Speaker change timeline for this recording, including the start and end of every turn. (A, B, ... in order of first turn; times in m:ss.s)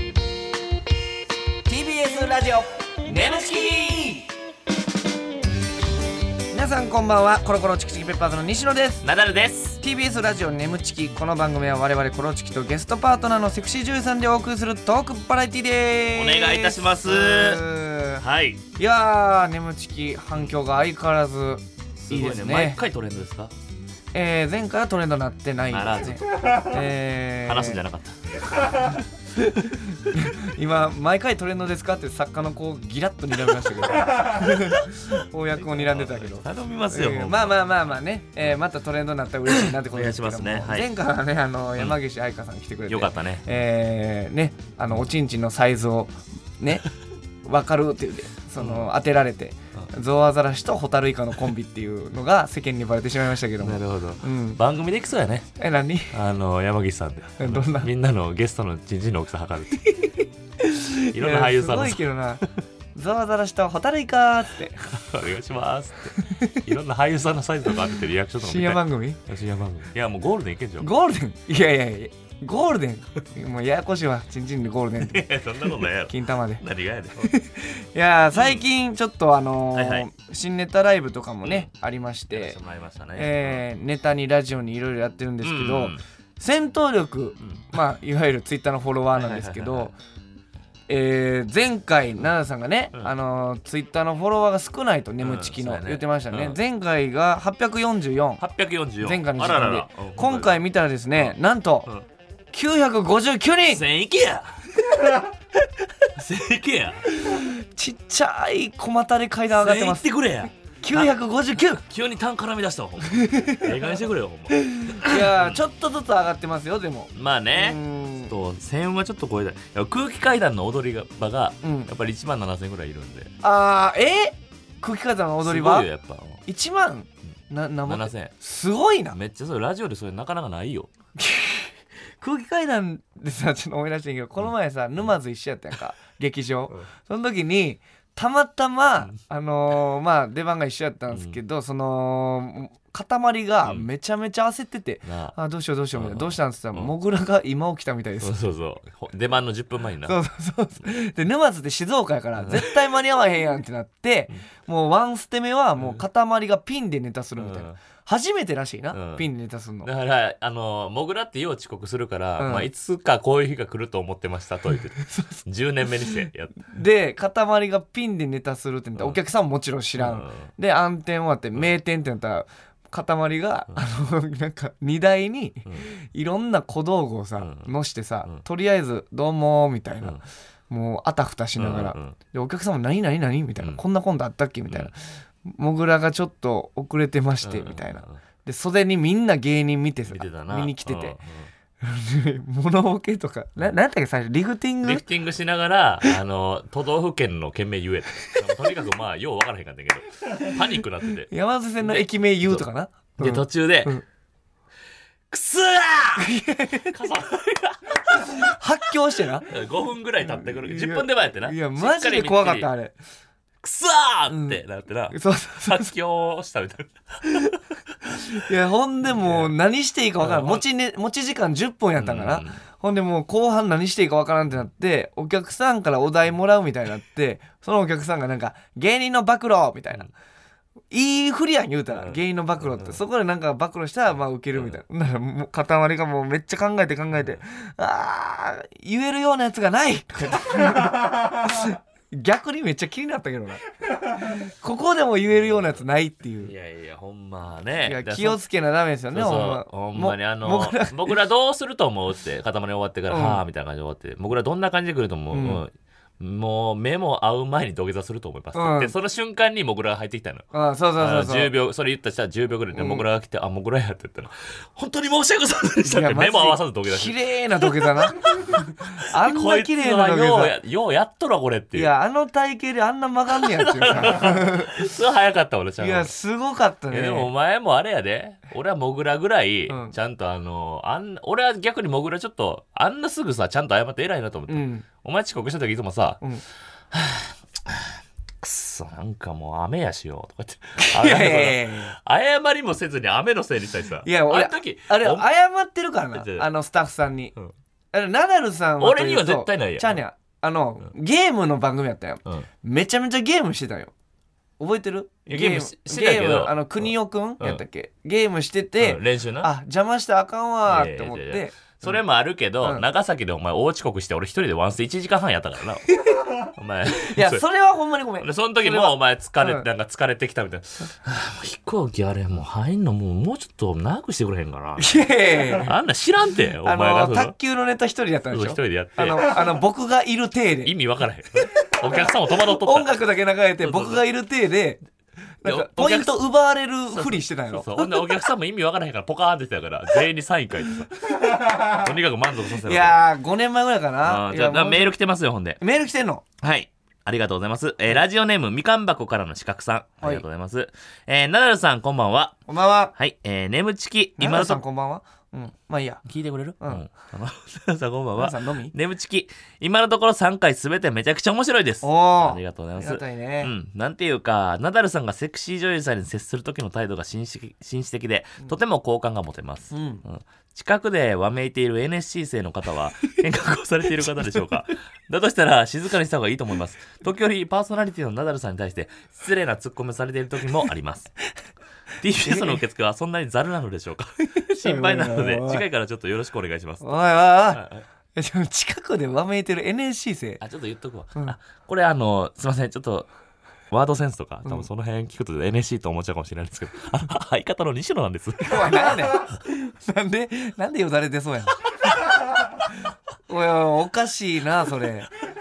0:01.6-0:04.3 A
0:06.5-0:09.0 A
0:09.0-0:09.8 B
0:09.8-0:18.2 A
0:16.2-0:17.6 B
0:18.2-0:18.6 B
0:18.8-0:22.8 A
0:22.0-0:23.5 B
0:24.1-0:27.8 A
0:25.7-0:26.7 B
0:27.5-0:28.2 B
0:29.4-0:46.8 A
0:35.6-0:38.0 B
0:39.5-0:40.9 B
0:42.9-0:43.5 B
0:47.4-0:54.6 A
0:48.6-0:48.9 B
0:53.6-0:55.5 B
0:55.6-0:56.2 A
0:56.1-0:59.9 B
0:57.4-0:57.9 A
0:59.9-1:02.4 A
1:01.1-1:02.0 B
1:03.0-1:04.9 A
1:04.8-1:10.9 B
1:08.4-1:09.2 A
1:10.8-1:15.2 A
1:15.0-1:17.4 B
1:16.0-1:16.6 A
1:17.2-1:22.6 A
1:18.3-1:18.6 B
1:19.7-1:20.1 B
1:21.4-1:21.7 B
1:22.3-1:23.6 B
1:23.2-1:30.0 A
1:25.4-1:26.0 B
1:27.4-1:27.7 B
1:29.2-1:29.9 B
1:30.9-1:38.4 A
1:35.2-1:36.6 B
1:38.4-1:40.6 B
1:39.0-1:41.9 A
1:42.5-1:43.8 A
1:43.7-1:45.2 B
1:46.1-1:47.1 B
1:47.2-1:50.1 A
1:49.5-1:51.1 B
1:50.8-1:51.8 A
1:51.7-1:55.6 B
1:53.2-1:53.8 A
1:54.6-1:58.3 A
1:57.2-2:03.3 B
2:01.6-2:01.9 A
2:03.4-2:05.9 A
2:05.4-2:06.4 B
2:06.5-2:09.2 A
2:07.9-2:08.3 B
2:09.1-2:10.9 B
2:11.2-2:28.4 A
2:21.1-2:21.4 B
2:25.1-2:25.3 B
2:25.9-2:26.9 B
2:28.2-2:30.2 B
2:30.0-2:39.9 A
2:32.4-2:32.8 B
2:35.8-2:36.0 B
2:37.4-2:37.8 B
2:38.9-2:39.3 B
2:39.8-2:46.7 B
2:42.4-2:42.7 A
2:45.1-2:45.4 A
2:46.7-3:00.2 A
2:50.0-2:50.5 B
2:55.7-2:55.9 B
2:57.4-2:57.7 B
3:00.7-3:04.9 A
3:01.6-3:02.2 B
3:05.5-3:11.2 A
3:07.4-3:08.2 B
3:10.1-3:11.5 B
3:11.8-3:15.0 A
3:14.8-3:22.6 B
3:21.3-3:24.0 A
3:23.2-3:24.0 B
3:25.3-3:26.3 B
3:26.2-3:27.0 A
3:26.9-3:28.5 B
3:28.1-3:29.5 A
3:29.5-3:32.7 B
3:30.2-3:33.0 A
3:33.6-3:37.5 B
3:34.3-3:35.9 A
3:38.3-3:50.1 A
3:39.2-3:39.5 B
3:40.2-3:40.6 B
3:42.0-3:42.6 B
3:50.9-4:06.5 A
3:52.0-3:53.0 B
3:57.1-3:57.4 B
4:05.3-4:05.8 B
4:06.4-4:08.4 B
4:07.8-4:11.2 A
4:09.1-4:20.5 B
4:13.1-4:13.4 A
4:15.3-4:15.6 A
4:18.5-4:18.9 A
4:20.5-4:21.5 A
4:21.0-4:31.9 B
4:22.7-4:23.0 A
4:25.8-4:30.6 A
4:31.7-4:34.9 A
4:33.5-4:36.1 B
4:35.8-4:37.3 A
4:36.9-4:46.2 B
4:39.7-4:39.9 A
4:44.5-4:44.8 A
4:46.9-4:55.2 B
4:50.8-4:52.0 A
4:54.0-4:57.3 A
4:56.1-4:56.5 B
4:57.9-5:03.9 A
4:58.8-5:00.0 B
5:04.6-5:12.0 A
5:05.3-5:07.6 B
5:08.8-5:09.5 B
5:10.7-5:17.4 B
5:17.0-5:19.6 A
5:18.2-5:25.0 B
5:24.8-5:25.8 A
5:25.6-5:27.3 B
5:26.6-5:30.7 A
5:28.3-5:29.2 B
5:30.6-5:32.9 B
5:31.8-5:34.8 A
5:33.6-5:34.0 B
5:35.4-5:38.1 A
5:35.4-5:36.1 B
5:36.9-5:43.0 B
5:42.6-5:45.0 A
5:44.0-5:45.6 B
5:45.6-5:46.2 A
5:46.4-5:52.4 B
5:52.5-5:52.9 A
5:53.0-5:54.6 B
5:54.2-5:56.0 A
5:56.1-6:21.1 B
5:58.2-5:58.8 A
6:01.8-6:03.5 A
6:09.7-6:10.0 A
6:22.0-6:27.0 B
6:22.2-6:22.6 A
6:24.4-6:25.6 A
6:26.8-6:27.6 A
6:27.5-6:27.8 B
6:28.2-6:30.4 A
6:30.4-6:33.1 B
6:33.7-6:38.9 B
6:38.4-6:41.6 A
6:43.3-6:45.1 A